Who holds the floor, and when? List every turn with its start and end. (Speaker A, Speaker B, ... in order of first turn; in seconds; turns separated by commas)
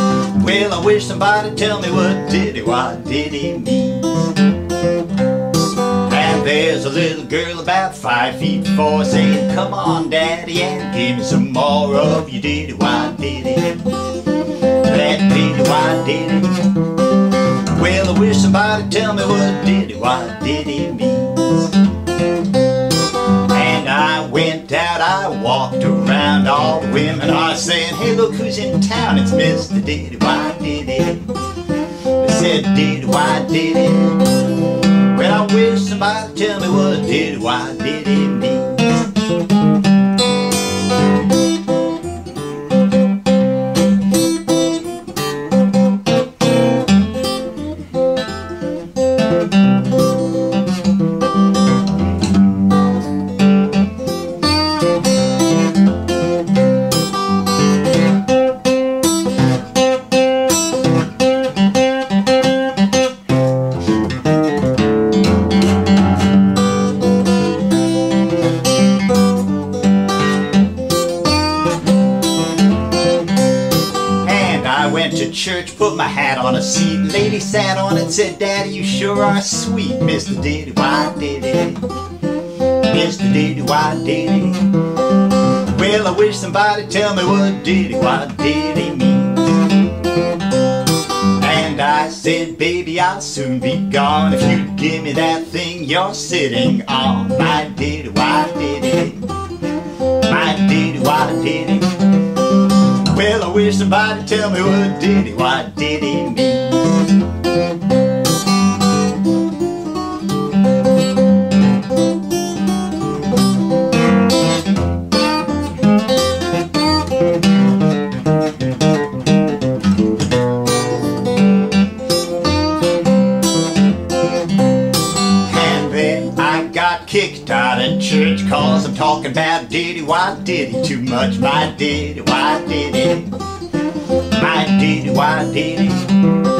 Speaker A: 0.3-4.4, Speaker A: 5.9-14.0, Speaker A: 14.6-16.8, Speaker A: 17.6-21.8, Speaker A: 23.4-31.3, Speaker A: 32.1-39.1, Speaker A: 74.2-81.9, Speaker A: 82.7-84.8, Speaker A: 85.5-89.7, Speaker A: 91.3-99.3, Speaker A: 100.0-102.1, Speaker A: 102.8-107.1, Speaker A: 125.3-133.3, Speaker A: 134.2-136.3